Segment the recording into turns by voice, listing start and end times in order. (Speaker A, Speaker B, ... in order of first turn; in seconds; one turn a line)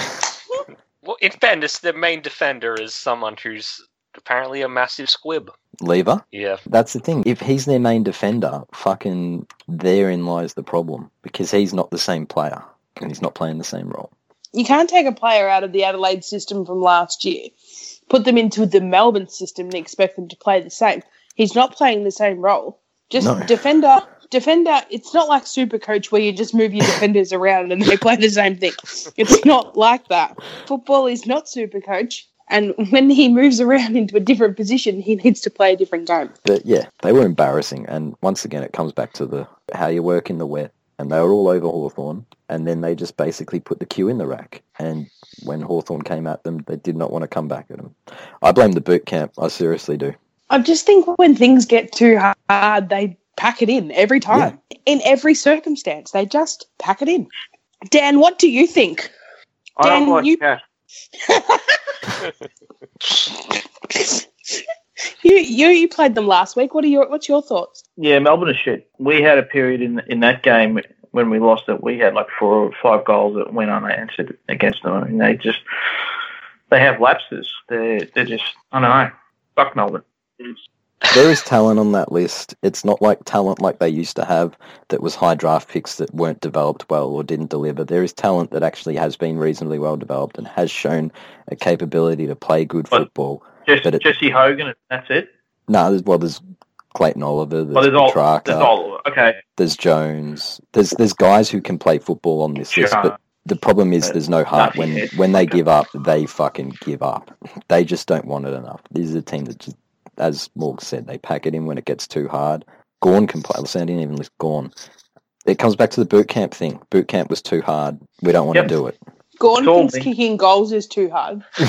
Speaker A: 1.0-5.5
Speaker B: 5.8-14.1
Speaker A: 6.3-6.6
Speaker C: 14.5-17.5
Speaker C: 18.1-36.3
Speaker B: 23.2-23.5
Speaker B: 36.4-50.1
Speaker C: 50.5-57.3
Speaker C: 57.9-59.1
Speaker D: 59.8-60.6
Speaker C: 59.8-60.4
Speaker C: 61.2-61.8
Speaker C: 63.1-64.2
Speaker C: 65.2-67.8
Speaker D: 68.0-75.6
Speaker D: 76.7-80.5
Speaker B: 81.1-94.0
Speaker D: 93.7-95.3
Speaker B: 95.7-96.4
Speaker B: 96.9-98.7
Speaker D: 97.7-99.4
Speaker B: 99.6-114.7
Speaker D: 102.7-103.1
Speaker D: 104.0-105.6
Speaker B: 115.5-119.0
Speaker C: 119.4-121.4
Speaker D: 119.6-120.1